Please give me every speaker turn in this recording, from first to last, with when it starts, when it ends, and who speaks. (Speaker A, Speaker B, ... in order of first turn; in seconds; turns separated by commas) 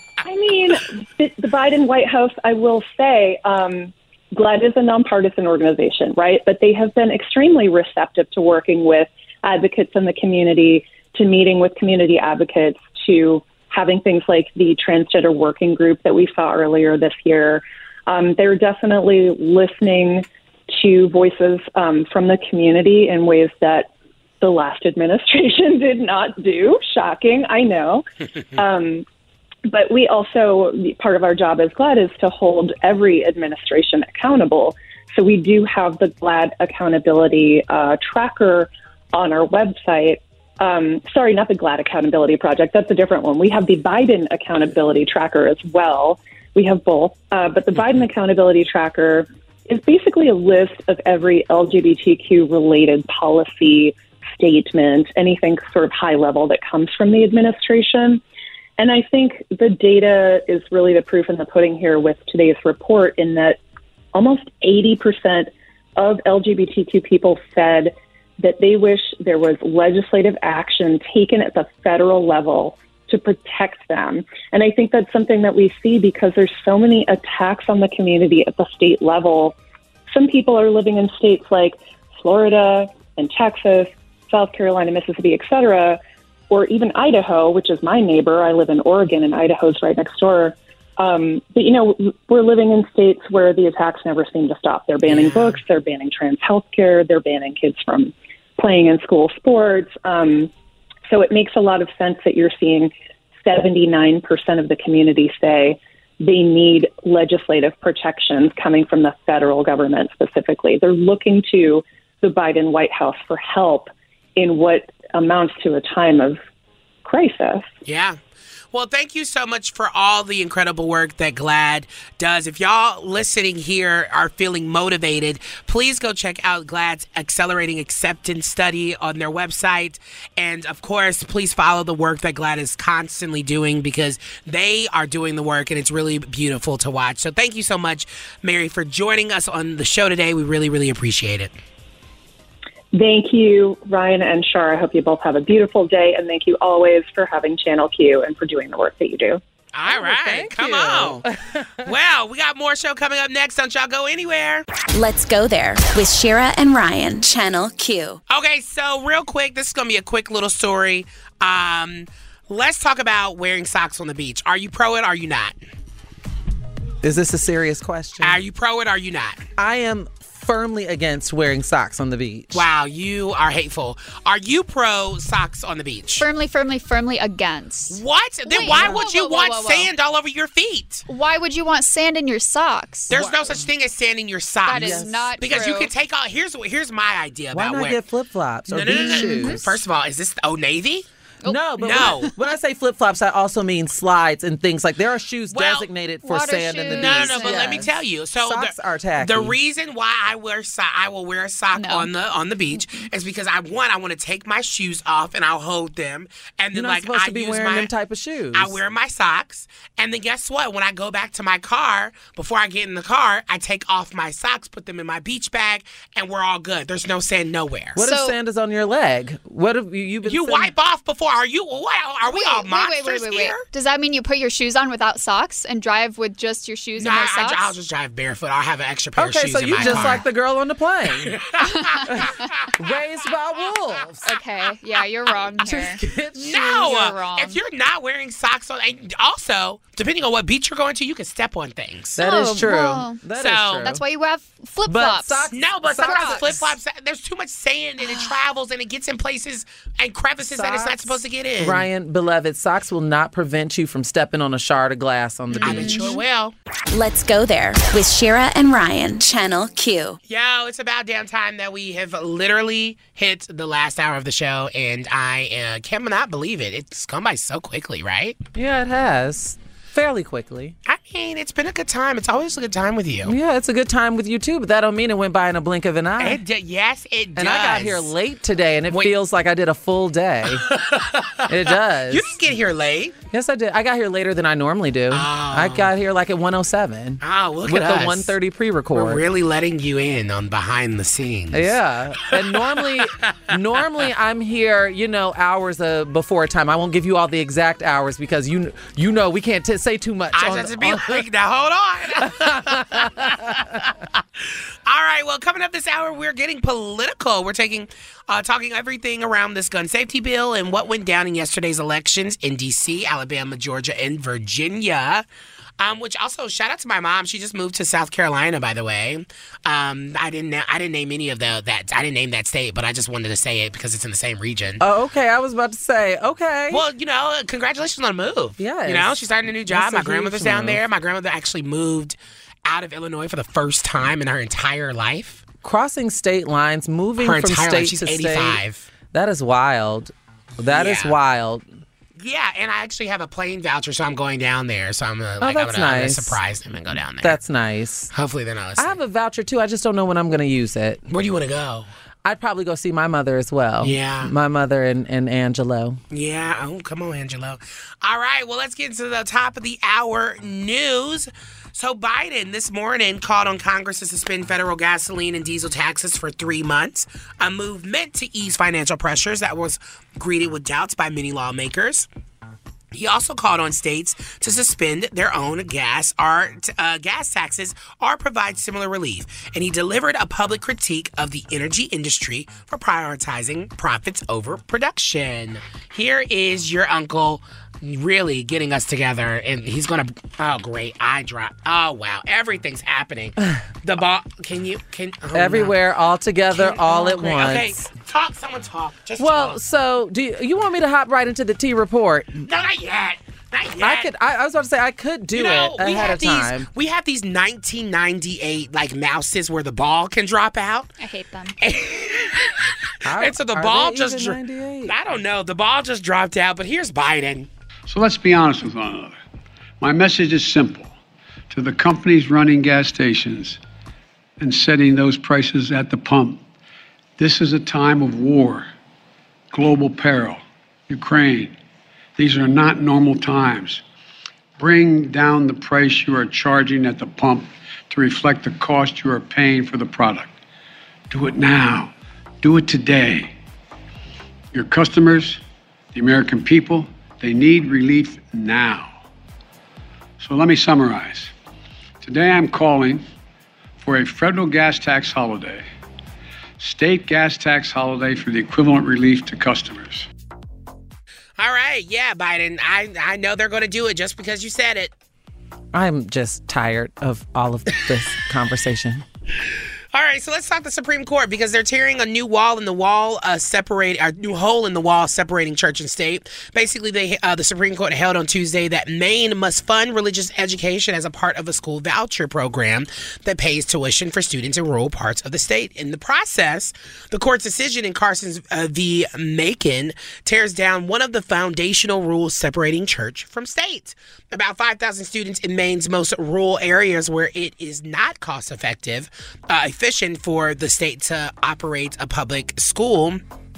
Speaker A: 0.2-23.9, Speaker A: 24.4-28.1, Speaker A: 28.6-29.1, Speaker A: 29.7-58.2, Speaker A: 58.8-63.6, Speaker A: 64.1-79.5, Speaker A: 80.1-86.0, Speaker A: 86.5-100.5, Speaker A: 101.1-102.9, Speaker A: 103.5-116.4, Speaker A: 117.0-117.7, Speaker B: 117.8-118.2, Speaker B: 118.7-141.5, Speaker A: 142.9-149.4, Speaker B: 149.7-151.2, Speaker C: 149.9-151.9, Speaker B: 151.8-154.7, Speaker D: 154.9-158.2, Speaker B: 158.3-165.6, Speaker C: 167.0-168.4, Speaker B: 168.2-169.4, Speaker C: 169.6-172.6, Speaker B: 172.5-176.3, Speaker E: 176.2-179.9, Speaker B: 177.9-181.1, Speaker C: 178.6-179.0, Speaker E: 181.1-183.2, Speaker B: 183.1-188.0, Speaker C: 183.1-183.6, Speaker E: 184.7-185.9, Speaker C: 184.7-185.3, Speaker C: 187.5-189.8, Speaker B: 188.7-191.1, Speaker E: 188.9-189.6, Speaker E: 191.4-192.2, Speaker C: 191.5-197.9, Speaker B: 191.8-192.3, Speaker B: 195.5-195.9, Speaker E: 196.2-197.9, Speaker B: 196.9-207.9, Speaker C: 198.4-199.6, Speaker E: 201.7-202.1, Speaker C: 206.7-208.8, Speaker B: 208.5-218.1, Speaker C: 218.0-220.7, Speaker E: 218.0-218.3, Speaker B: 220.2-223.7, Speaker E: 222.2-227.7, Speaker B: 227.0-230.2, Speaker C: 229.2-231.3, Speaker E: 229.8-230.2, Speaker B: 231.3-232.0, Speaker E: 231.6-232.0, Speaker C: 232.1-234.3, Speaker E: 234.2-237.6, Speaker C: 235.6-237.1, Speaker B: 236.4-242.2, Speaker C: 242.2-244.0, Speaker E: 242.2-243.2, Speaker B: 243.4-244.0, Speaker E: 243.8-246.6, Speaker C: 244.9-246.7, Speaker B: 245.5-251.9, Speaker E: 248.0-248.3, Speaker C: 250.5-256.2, Speaker E: 255.6-256.2, Speaker B: 255.6-256.5, Speaker D: 256.9-260.2, Speaker B: 260.3-268.4, Speaker C: 268.6-270.8, Speaker B: 270.9-273.3, Speaker C: 273.3-276.4, Speaker B: 276.2-278.1, Speaker C: 277.4-280.7, Speaker B: 280.6-281.4, Speaker C: 281.5-282.3, Speaker B: 282.1-283.1, Speaker C: 283.3-289.2, Speaker B: 285.1-285.9, Speaker B: 287.2-288.4, Speaker B: 288.9-291.8, Speaker C: 291.5-301.2, Speaker B: 292.9-293.3, Speaker B: 300.3-304.2, Speaker C: 302.2-303.1, Speaker B: 304.9-315.2, Speaker B: 315.8-324.8, Speaker C: 324.8-326.8, Speaker B: 326.7-335.4, Speaker C: 328.6-329.2, Speaker C: 329.7-330.8, Speaker C: 335.6-338.6, Speaker B: 337.2-338.9, Speaker C: 339.1-341.6, Speaker B: 340.7-341.1, Speaker B: 342.2-347.4, Speaker C: 345.4-346.4, Speaker C: 347.2-348.1, Speaker B: 348.1-349.0, Speaker C: 348.8-351.0, Speaker B: 351.1-351.9, Speaker C: 352.2-356.0, Speaker B: 353.8-354.3, Speaker B: 356.1-372.1, Speaker B: 372.9-395.8, Speaker C: 395.3-397.9, Speaker B: 396.5-399.6, Speaker C: 399.2-402.4, Speaker B: 402.4-404.1, Speaker C: 403.8-406.7, Speaker B: 405.4-410.9, Speaker E: 411.0-411.6, Speaker B: 411.6-412.6, Speaker C: 413.1-414.9, Speaker B: 413.2-417.5, Speaker F: 417.9-419.2, Speaker F: 419.8-420.9, Speaker F: 421.5-423.6, Speaker F: 424.4-426.4, Speaker F: 427.2-428.7, Speaker F: 429.5-431.6, Speaker F: 432.2-433.8, Speaker F: 434.6-440.4, Speaker F: 441.1-443.3, Speaker F: 444.5-445.4, Speaker F: 445.9-449.0, Speaker F: 450.2-451.3, Speaker F: 452.0-453.1, Speaker F: 453.8-455.6, Speaker F: 456.6-460.1, Speaker B: 461.4-464.9, Speaker C: 465.7-469.0, Speaker B: 469.9-503.2